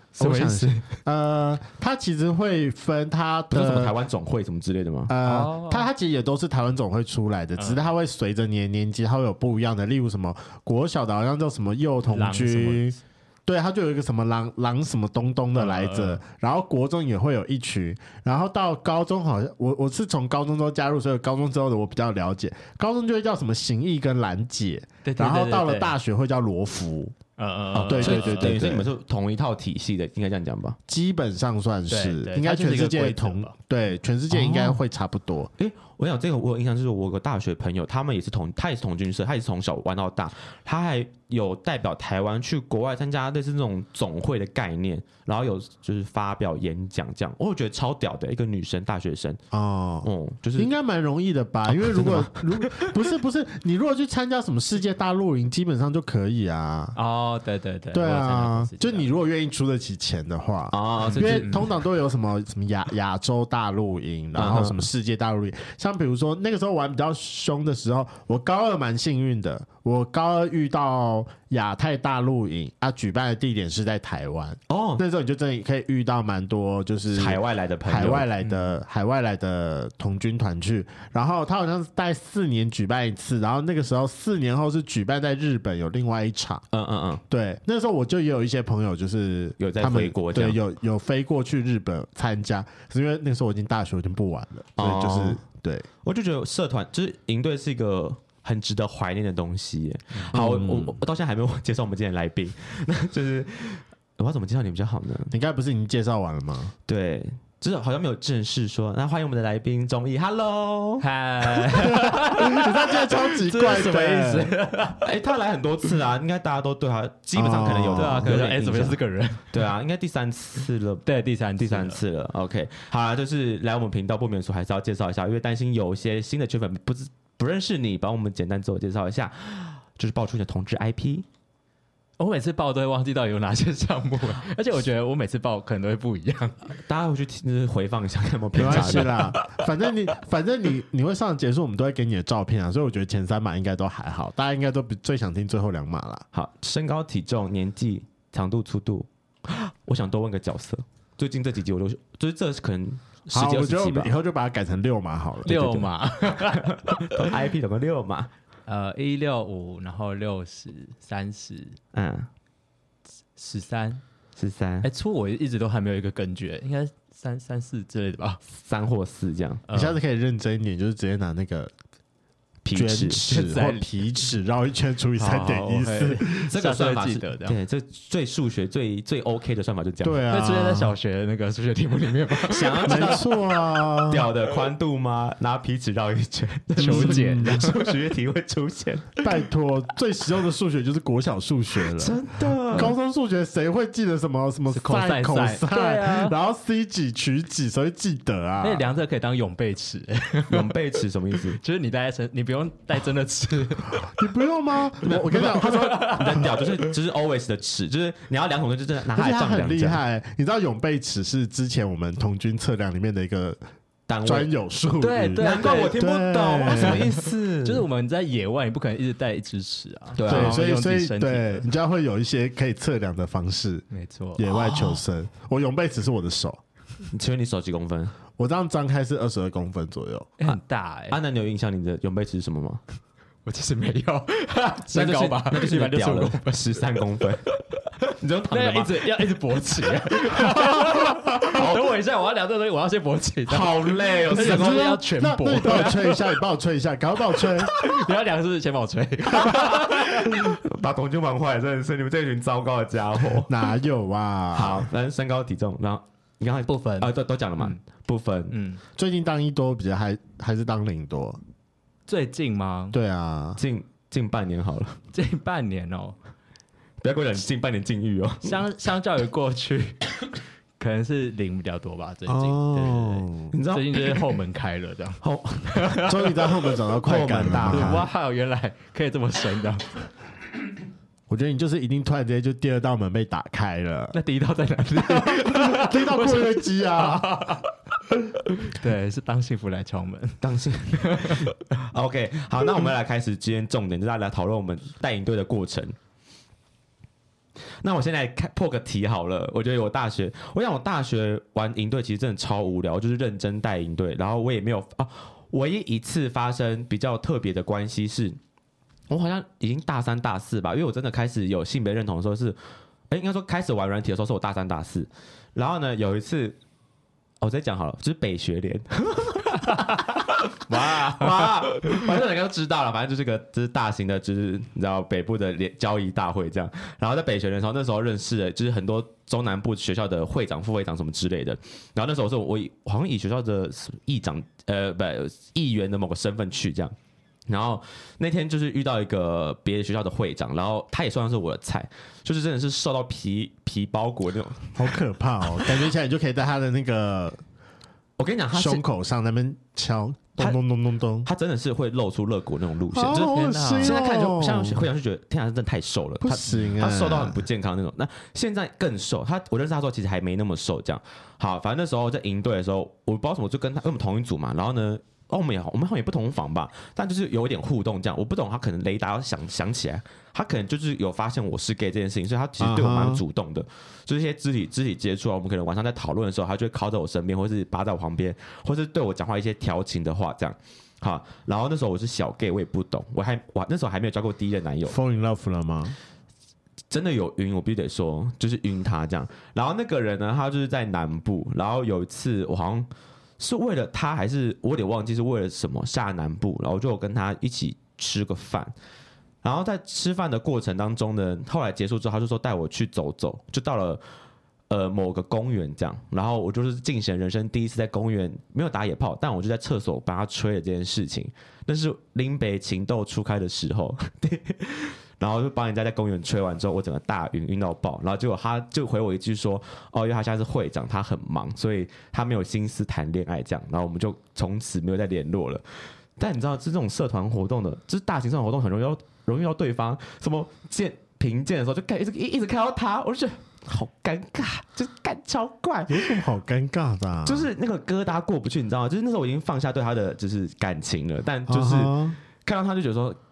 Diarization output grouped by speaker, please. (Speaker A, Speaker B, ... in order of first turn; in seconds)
Speaker A: 0.1-3.9, 5.1-27.1, 27.9-28.9, 30.9-35.5, 49.5-57.0, 57.9-86.6, 87.3-95.8, 100.3-101.0, 105.3-106.7, 111.8-114.5, 117.3-118.3, 138.6-146.2, 153.3-155.9, 169.7-171.7, 172.7-176.4, 180.0-180.9, 182.8-184.2, 186.8-187.6, 189.2-198.8, 204.1-206.4, 209.2-213.6, 214.2-217.0, 220.3-223.8, 224.4-226.6, 228.4-230.4, 240.9-241.2, 244.3-247.8, 253.5-254.9, 258.9-261.4, 262.9-263.6, 272.3-273.5, 276.0-278.0, 281.3-284.2, 285.0-287.4, 344.8-347.4, 348.5-351.3, 352.9-354.8, 356.2-357.5, 372.6-373.2, 384.9-386.0, 435.9-437.5, 441.5-442.2
Speaker B: 0.2-0.8, 5.2-5.9, 7.6-7.8, 12.1-13.0, 15.5-16.2, 25.0-26.0, 27.4-28.6, 31.9-33.5, 34.3-34.8, 57.0-59.1, 61.2-61.7, 78.4-78.7, 111.0-115.1, 117.7-119.6, 121.0-122.0, 132.2-136.7, 138.6-139.4, 155.4-157.3, 158.7-161.8, 163.4-164.0, 164.8-168.4, 169.7-170.0, 173.3-173.9, 175.2-177.6, 180.3-183.3, 186.8-188.0, 194.7-196.3, 198.6-204.3, 205.1-206.7, 215.0-216.0, 216.7-221.7, 223.9-224.7, 230.4-231.2, 233.4-237.0, 238.5-246.4, 247.3-250.5, 256.7-257.8, 258.5-258.8, 262.1-262.9, 265.1-266.2, 268.4-276.4, 277.7-280.1, 284.1-287.7, 288.6-291.5, 320.7-322.0, 353.1-353.9
Speaker C: 3.5-5.1, 27.7-30.8, 35.6-49.4, 50.0-50.7, 51.7-53.0, 60.7-61.7, 64.3-64.9, 74.7-75.0, 77.1-78.3, 86.7-87.2, 89.6-90.6, 94.8-95.4, 96.0-105.3, 106.9-111.8, 115.0-119.0, 119.5-121.0, 121.6-131.3, 136.7-139.3, 146.3-154.1, 156.6-158.3, 161.9-162.3, 164.4-164.9, 168.5-169.6, 172.6-173.3, 176.5-180.2, 182.5-183.3, 184.1-189.1, 191.9-192.9, 200.5-201.6, 205.6-210.0, 214.1-214.5, 215.4-217.9, 220.1-220.6, 224.6-225.0, 227.1-228.2, 231.1-232.8, 234.9-237.4, 238.0-239.3, 241.5-241.9, 243.5-244.9, 249.4-253.6, 254.5-258.6, 263.6-265.0, 267.0-268.6, 273.5-274.4, 275.2-276.3, 277.0-278.1, 290.4-295.9, 297.8-308.4, 309.1-312.6, 313.1-316.6, 317.4-336.9, 337.5-344.9, 345.6-345.8, 348.2-348.8, 351.2-384.9, 386.9-398.7, 399.4-404.0, 404.7-436.2, 437.2-443.2